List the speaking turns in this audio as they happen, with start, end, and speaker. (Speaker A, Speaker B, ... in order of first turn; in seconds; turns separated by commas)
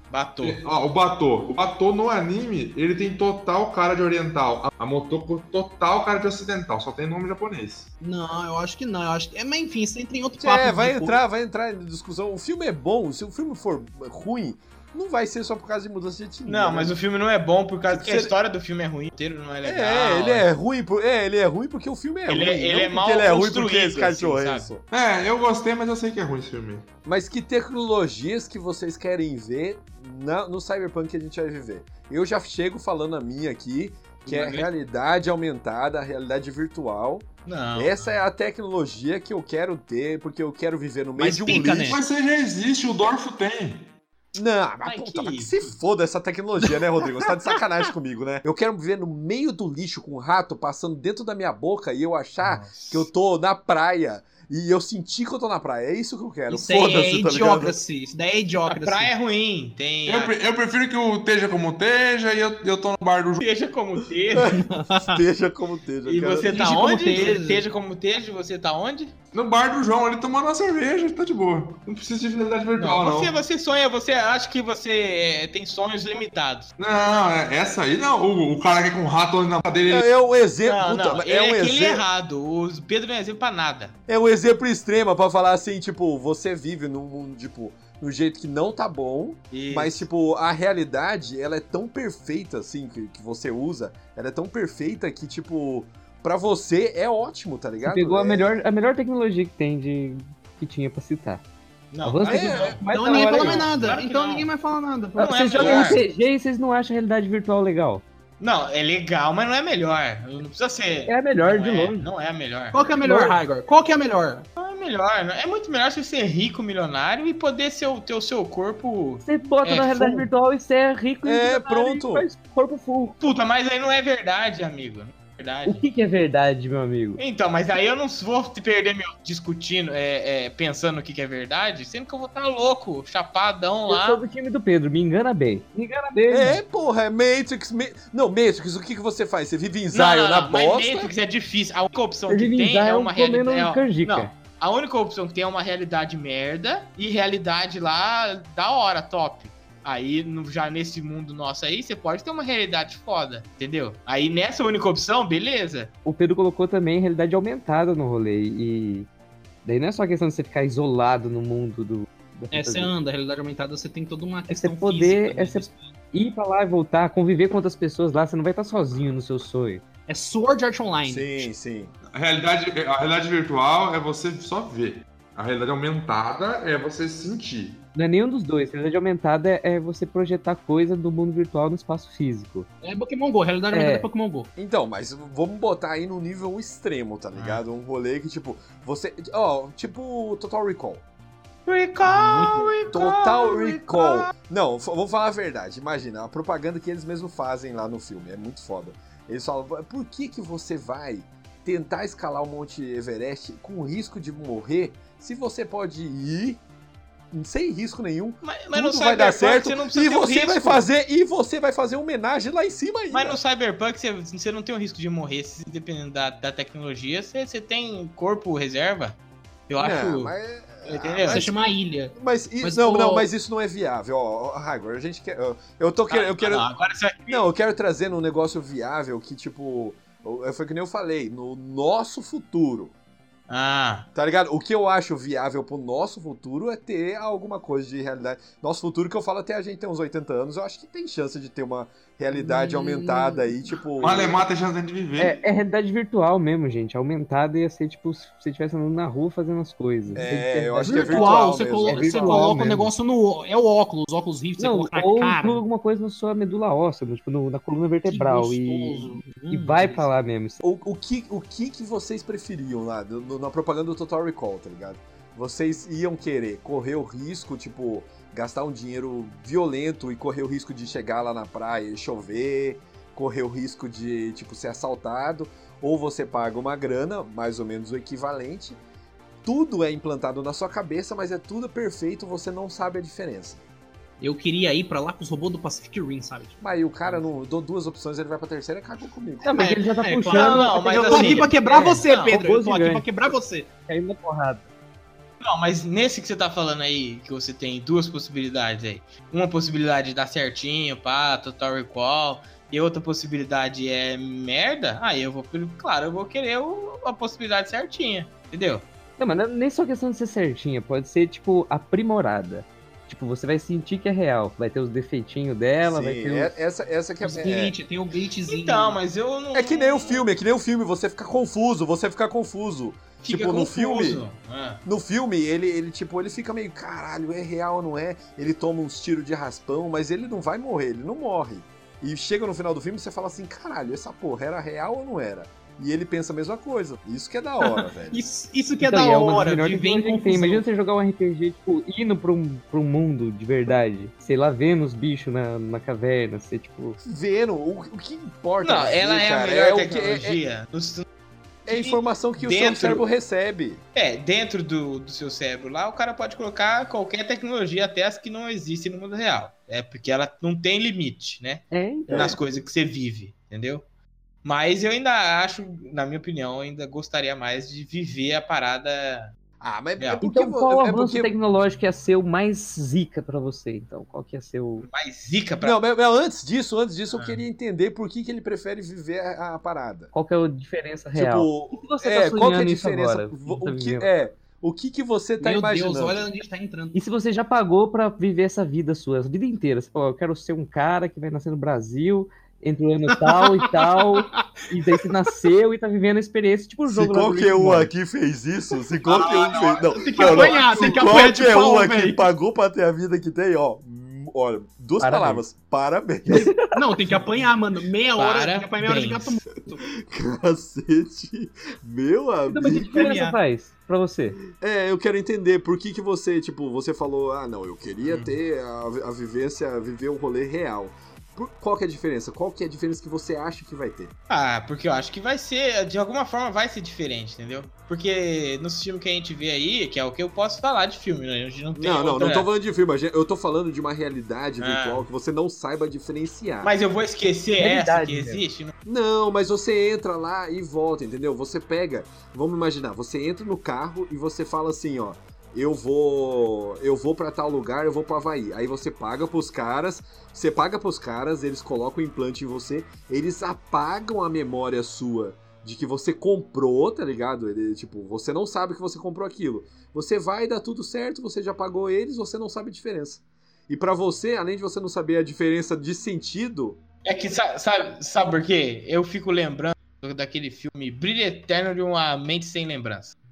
Speaker A: 0.1-0.6, Speaker B: 0.4-7.9, Speaker C: 8.0-11.2, Speaker D: 10.4-16.9, Speaker A: 16.5-20.5, Speaker D: 17.9-18.3, Speaker D: 19.6-24.8, Speaker A: 22.3-24.7, Speaker B: 24.9-26.9, Speaker D: 27.1-42.0, Speaker A: 34.3-34.7, Speaker A: 37.5-38.2, Speaker C: 41.2-42.0, Speaker B: 41.9-43.9, Speaker D: 44.4-57.8, Speaker A: 44.9-45.7, Speaker A: 52.4-53.1, Speaker C: 56.5-59.1, Speaker A: 58.7-60.3, Speaker B: 60.1-63.5, Speaker A: 63.4-64.6, Speaker D: 64.4-66.5, Speaker C: 64.4-65.2, Speaker A: 66.0-69.1, Speaker C: 66.5-67.7, Speaker B: 69.3-73.3, Speaker A: 72.8-76.7, Speaker B: 76.8-80.1, Speaker D: 79.9-82.0, Speaker A: 80.7-83.9, Speaker D: 84.1-98.6, Speaker A: 89.5-90.1, Speaker E: 97.8-101.4, Speaker A: 101.9-104.5, Speaker E: 102.0-103.8, Speaker D: 102.2-102.8, Speaker C: 102.9-106.0, Speaker E: 105.2-108.0, Speaker A: 105.2-106.0, Speaker A: 108.4-112.8, Speaker E: 111.1-112.1, Speaker C: 112.7-114.5, Speaker E: 113.0-113.3, Speaker A: 114.6-120.0, Speaker E: 119.2-123.2, Speaker D: 119.9-120.3, Speaker D: 121.2-122.3, Speaker A: 123.2-125.9, Speaker E: 125.7-127.2, Speaker A: 127.2-134.2, Speaker E: 133.9-136.6, Speaker D: 136.3-141.1, Speaker A: 139.9-155.9, Speaker E: 142.3-144.3, Speaker E: 156.1-159.1, Speaker E: 159.6-162.9, Speaker C: 162.5-165.9, Speaker E: 164.5-169.8, Speaker C: 170.1-171.5, Speaker D: 171.1-171.9, Speaker B: 172.1-177.8, Speaker E: 177.9-182.7, Speaker C: 182.8-184.5, Speaker E: 183.7-184.1, Speaker D: 184.6-191.0, Speaker A: 187.3-187.6, Speaker A: 191.7-194.3, Speaker C: 192.1-192.9, Speaker D: 192.9-206.6, Speaker D: 207.3-213.4, Speaker A: 208.4-210.8, Speaker A: 213.1-219.2, Speaker A: 219.7-221.5, Speaker D: 219.8-221.6, Speaker C: 221.3-223.3, Speaker D: 222.2-226.7, Speaker A: 226.1-227.5, Speaker D: 227.3-232.9, Speaker A: 233.5-234.1, Speaker D: 234.2-244.4, Speaker C: 242.3-243.5, Speaker B: 244.0-245.4, Speaker E: 245.2-252.9, Speaker D: 250.1-252.9, Speaker C: 250.8-255.6, Speaker E: 254.6-260.6, Speaker C: 258.1-260.1, Speaker D: 260.6-278.8, Speaker D: 279.4-283.6, Speaker C: 284.2-287.2, Speaker D: 286.6-289.6, Speaker E: 289.4-293.1, Speaker C: 289.6-293.7, Speaker A: 290.3-292.4, Speaker E: 293.9-294.7, Speaker A: 295.4-308.9, Speaker E: 309.2-316.6, Speaker D: 315.8-317.7, Speaker C: 317.2-319.0, Speaker A: 318.5-320.2, Speaker D: 319.5-324.2, Speaker A: 323.2-324.8, Speaker D: 324.9-338.2, Speaker C: 337.6-340.6, Speaker E: 338.8-347.0, Speaker D: 347.0-350.4, Speaker A: 348.6-351.1, Speaker A: 351.7-353.0, Speaker D: 351.7-353.8, Speaker A: 353.9-363.8, Speaker E: 361.7-362.4, Speaker D: 362.1-362.4, Speaker A: 364.4-369.3, Speaker D: 369.6-371.3, Speaker A: 370.0-370.2, Speaker E: 370.2-374.9, Speaker A: 374.8-375.8, Speaker D: 375.6-380.1, Speaker A: 377.1-377.4, Speaker E: 380.1-384.1, Speaker D: 381.1-386.2, Speaker C: 385.4-387.0, Speaker E: 386.9-397.9, Speaker C: 393.1-394.4, Speaker D: 396.9-406.6, Speaker A: 399.1-400.8, Speaker C: 399.9-402.3, Speaker E: 405.0-405.4, Speaker E: 406.3-407.0, Speaker C: 406.3-409.8, Speaker A: 408.2-409.3, Speaker D: 409.8-413.1, Speaker E: 412.5-414.4, Speaker C: 412.6-413.4, Speaker D: 414.6-424.1, Speaker A: 418.1-418.4, Speaker A: 424.3-432.5, Speaker D: 431.8-436.7, Speaker A: 434.6-435.1, Speaker A: 436.6-438.7, Speaker E: 437.6-438.4, Speaker D: 438.9-466.8, Speaker A: 467.1-473.2